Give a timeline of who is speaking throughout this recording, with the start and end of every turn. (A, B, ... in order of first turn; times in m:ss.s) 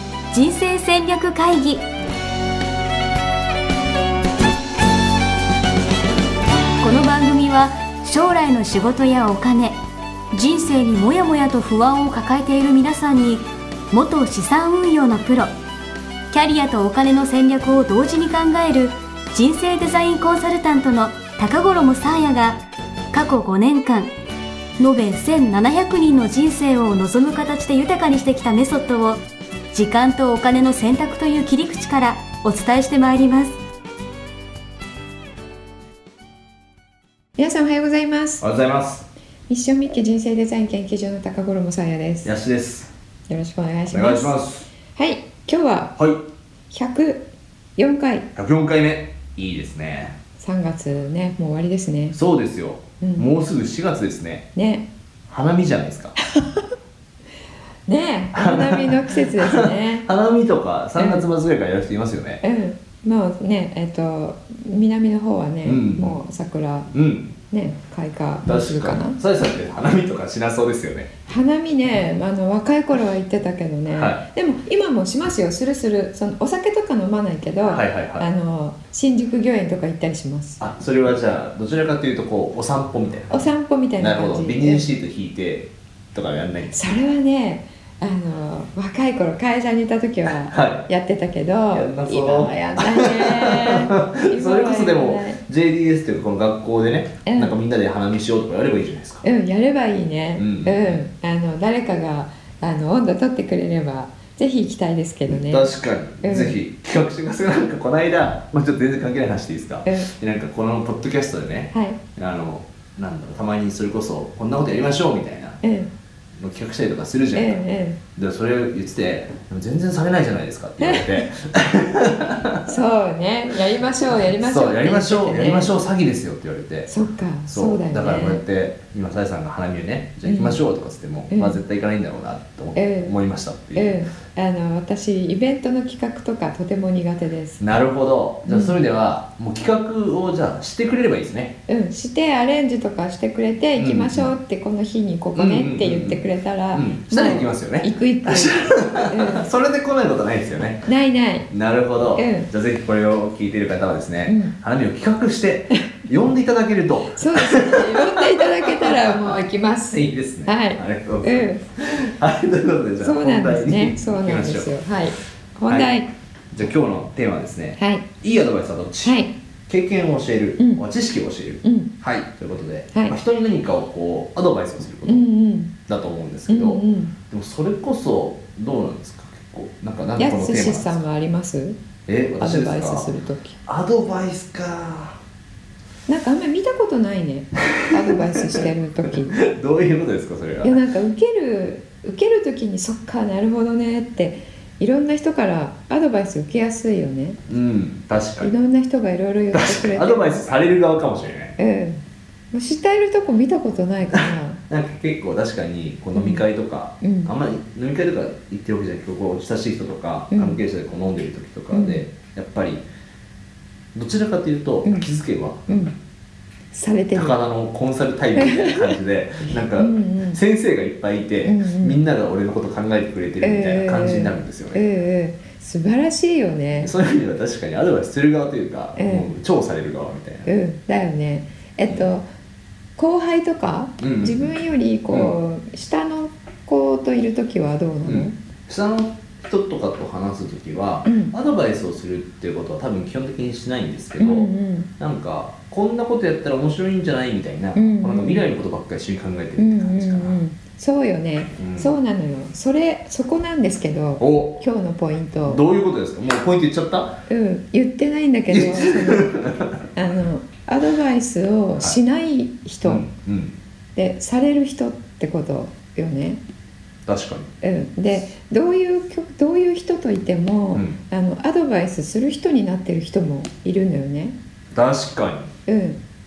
0:00.3-0:01.8 A
0:06.8-0:09.8 A
0:10.3-0:15.5 A
0:16.3-0:24.1 A
0:24.8-0:29.2 A
0:29.7-0:33.5 A
0:37.4-0:38.4 B
0:38.4-0:39.1 C
0:39.5-0:42.3 B
0:42.2-0:42.9 C
0:43.3-0:44.4 B
0:43.9-0:44.7 C
0:44.9-0:45.9 B
0:46.0-0:46.2 C
0:46.7-0:48.3 B
0:48.4-0:50.2 C
0:50.4-0:52.2 B
0:52.1-0:54.5 C
0:53.0-0:53.3 B
0:54.6-0:54.9 B
0:55.3-0:56.2 C
0:56.2-0:56.6 B
0:57.9-1:00.0 B
0:58.3-1:02.4 C
1:01.0-1:01.3 B
1:02.4-1:06.9 B
1:05.6-1:06.2 C
1:06.9-1:07.3 C
1:07.5-1:09.2 B
1:08.4-1:11.1 C
1:11.3-1:20.6 B
1:13.9-1:14.2 C
1:17.6-1:18.3 C
1:20.6-1:23.4 C
1:23.3-1:24.9 B
1:24.0-1:26.8 C
1:26.7-1:35.4 B
1:30.3-1:30.9 C
1:31.7-1:39.2 C
1:37.2-1:37.6 B
1:39.2-1:45.7 B
1:40.4-1:41.0 C
1:45.3-1:55.6 C
1:46.2-1:46.6 B
1:51.7-1:52.0 B
1:55.6-1:55.9 B
1:56.4-1:57.6 C
1:57.3-1:58.0 B
1:58.2-2:02.8 C
2:00.8-2:01.3 B
2:02.6-2:05.8 B
2:04.2-2:06.9 C
2:06.9-2:08.4 B
2:07.5-2:14.0 C
2:10.2-2:10.6 B
2:11.3-2:11.6 B
2:12.8-2:13.1 B
2:13.8-2:17.6 B
2:17.6-2:21.6 C
2:18.5-2:18.8 B
2:21.7-2:29.5 B
2:23.8-2:24.3 C
2:25.3-2:30.8 C
2:30.8-2:31.5 B
2:31.5-2:44.8 C
2:32.2-2:32.5 B
2:34.2-2:34.6 B
2:37.1-2:41.6 B
2:43.0-2:46.1 B
2:46.5-2:55.3 C
2:47.8-2:48.1 B
2:49.0-2:49.3 B
2:50.6-2:50.8 B
2:51.6-2:51.9 B
2:55.0-2:55.7 B
2:55.9-3:01.0 C
2:56.5-2:57.1 B
3:00.2-3:01.8 B
3:02.1-3:03.1 C
3:02.4-3:03.6 B
3:03.6-3:05.2 C
3:06.1-3:09.4 B
3:07.8-3:10.8 C
3:10.6-3:17.4 B
3:17.5-3:18.5 C
3:18.4-3:20.5 B
3:19.5-3:21.6 C
3:21.6-3:24.6 B
3:24.1-3:32.8 C
3:26.1-3:26.4 B
3:27.0-3:27.3 B
3:30.3-3:30.6 B
3:31.7-3:32.0 B
3:33.9-3:35.9 C
3:35.7-3:35.9 B
3:36.7-3:37.4 B
3:37.1-3:44.8 C
3:38.4-3:39.0 B
3:39.7-3:40.4 B
3:41.4-3:42.0 B
3:43.4-3:46.9 B
3:46.8-3:50.5 C
3:49.0-3:49.3 B
3:50.4-3:52.2 B
3:53.0-3:58.4 B
3:54.0-3:54.5 C
3:58.0-4:10.4 C
4:01.0-4:01.3 B
4:04.2-4:04.9 B
4:07.8-4:08.5 B
4:09.6-4:15.6 B
4:11.6-4:11.9 C
4:14.2-4:14.6 C
4:15.4-4:17.2 C
4:17.3-4:19.4 B
4:18.5-4:19.8 C
4:19.9-4:23.0 B
4:22.8-4:23.5 C
4:24.0-4:26.4 B
4:27.0-4:27.5 C
4:27.6-4:34.3 B
4:34.7-4:35.5 C
4:35.7-4:36.0 B